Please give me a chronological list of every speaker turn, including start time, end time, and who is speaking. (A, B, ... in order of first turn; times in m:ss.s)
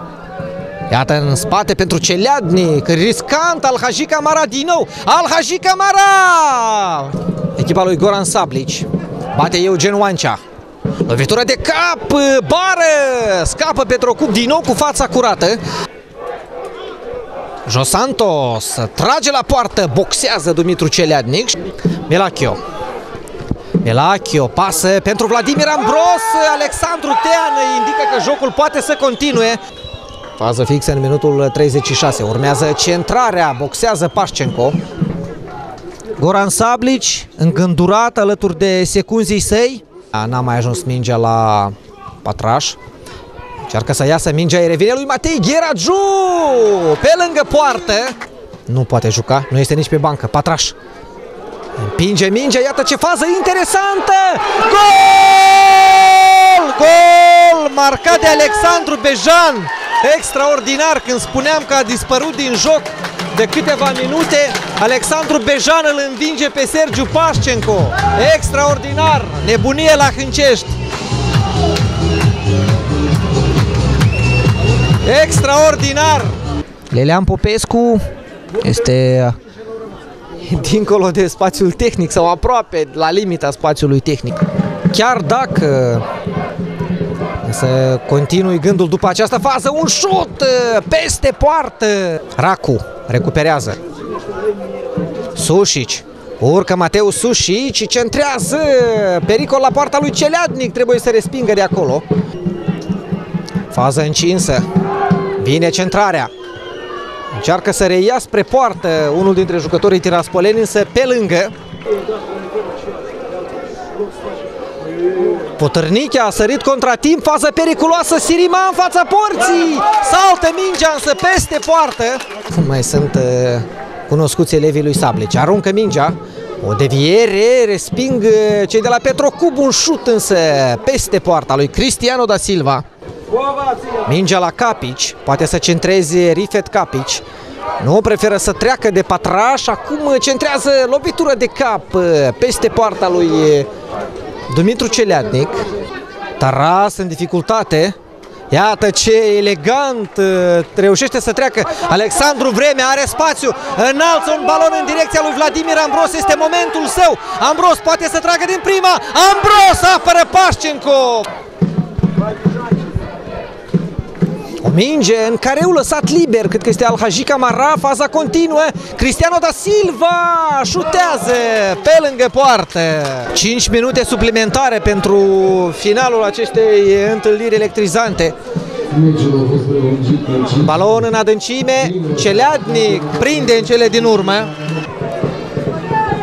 0:00.9-0:10.4 A
0:11.0-0:15.6 A
0:17.7-0:22.6 A
0:23.8-0:29.6 A
0:30.4-0:34.8 A
0:36.2-0:42.8 A
0:43.7-0:48.2 A
0:48.7-0:50.8 A
0:51.8-1:10.7 A
1:15.0-1:16.4 A
1:16.9-1:18.0 A
1:18.6-1:19.4 A
1:20.4-1:26.0 A
1:27.4-1:33.8 A
1:35.4-1:42.1 A
1:43.7-1:44.7 A
1:45.4-1:46.3 A
1:47.4-1:51.5 A
1:55.6-2:12.8 A
2:14.0-2:17.2 A
2:17.8-2:23.7 A
2:24.5-2:25.6 A
2:26.4-2:28.0 A
2:28.5-2:41.3 A
2:44.6-2:58.4 A
2:59.1-3:04.6 A